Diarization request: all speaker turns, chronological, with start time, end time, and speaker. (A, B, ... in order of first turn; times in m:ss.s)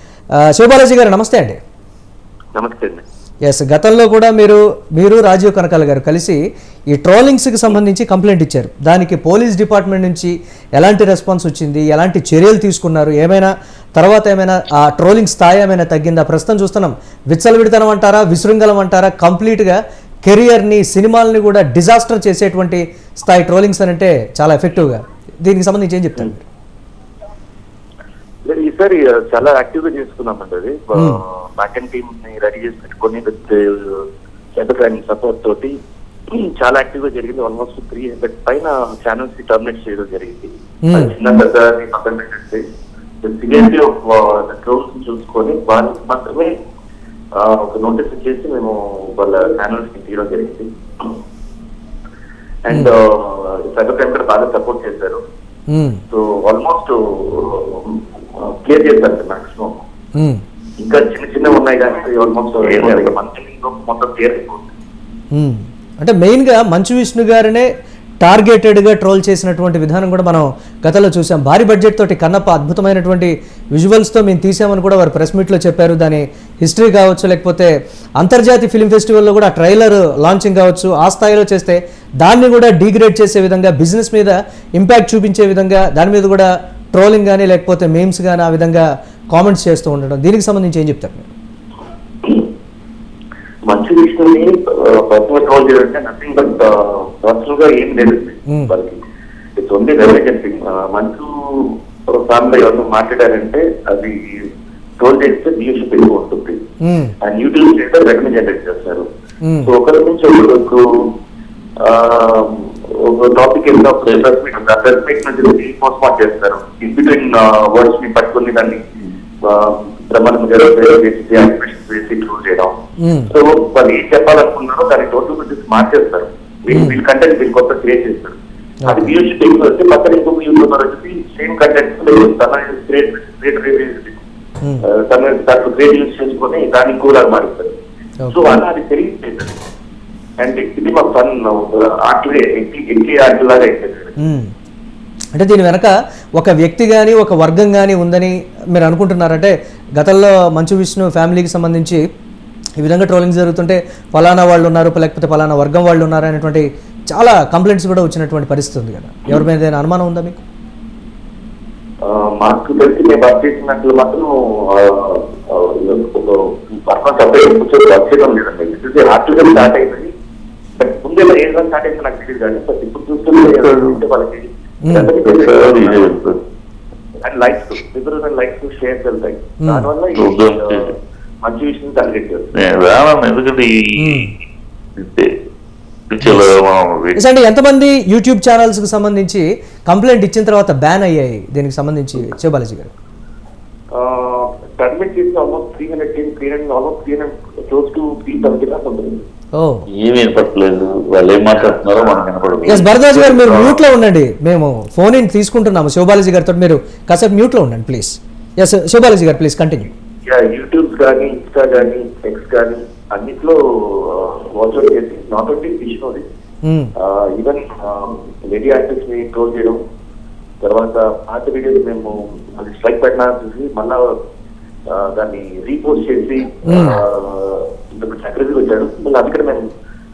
0:00.5-0:01.6 A
0:02.6-0:03.0 B
0:03.5-0:06.4 A
0:06.9-0:26.5 A
0:28.4-0:35.8 B
0:36.3-0:42.6 B
0:40.8-0:41.1 A
0:43.2-0:46.5 B
0:47.4-0:51.1 B
0:52.6-0:55.2 B
0:55.7-0:56.0 A
0:56.1-0:59.8 B
1:00.2-1:00.4 A
1:00.8-1:04.7 B
1:02.6-1:03.1 C
1:05.3-1:07.7 A
1:08.2-1:31.3 A
1:33.7-1:39.0 B
1:39.6-1:44.5 B
1:45.0-1:46.6 B
1:46.8-1:47.1 A
1:47.2-1:49.1 B
1:49.4-1:49.7 A
1:49.6-1:51.1 B
1:51.8-1:58.8 B
1:59.4-2:02.8 B
2:03.0-2:03.3 A
2:03.3-2:08.4 B
2:06.7-2:07.0 A
2:08.8-2:09.1 A
2:08.9-2:14.2 B
2:14.8-2:17.8 B
2:18.2-2:18.5 A
2:18.3-2:19.6 B
2:20.4-2:24.2 B
2:24.2-2:24.5 A
2:25.3-2:32.0 A
2:32.8-2:40.4 A
2:42.0-2:50.1 B
2:50.8-2:56.2 B
2:53.5-2:54.0 C
2:54.8-2:55.1 A
2:55.1-2:56.4 C
2:57.2-3:02.6 B
3:00.1-3:00.9 C
3:02.5-3:04.3 C
3:04.0-3:04.3 A
3:05.0-3:05.3 C
3:06.1-3:07.2 C
3:06.2-3:06.5 A
3:07.2-3:12.9 A
3:13.9-3:19.2 B
3:19.6-3:19.9 A
3:19.9-3:23.7 C
3:21.5-3:23.6 B
3:22.7-3:29.9 A
3:30.2-3:36.2 B
3:36.6-3:36.9 A
3:37.0-3:39.8 B
3:40.6-3:44.1 B
3:44.9-3:49.6 B
3:46.7-3:47.0 A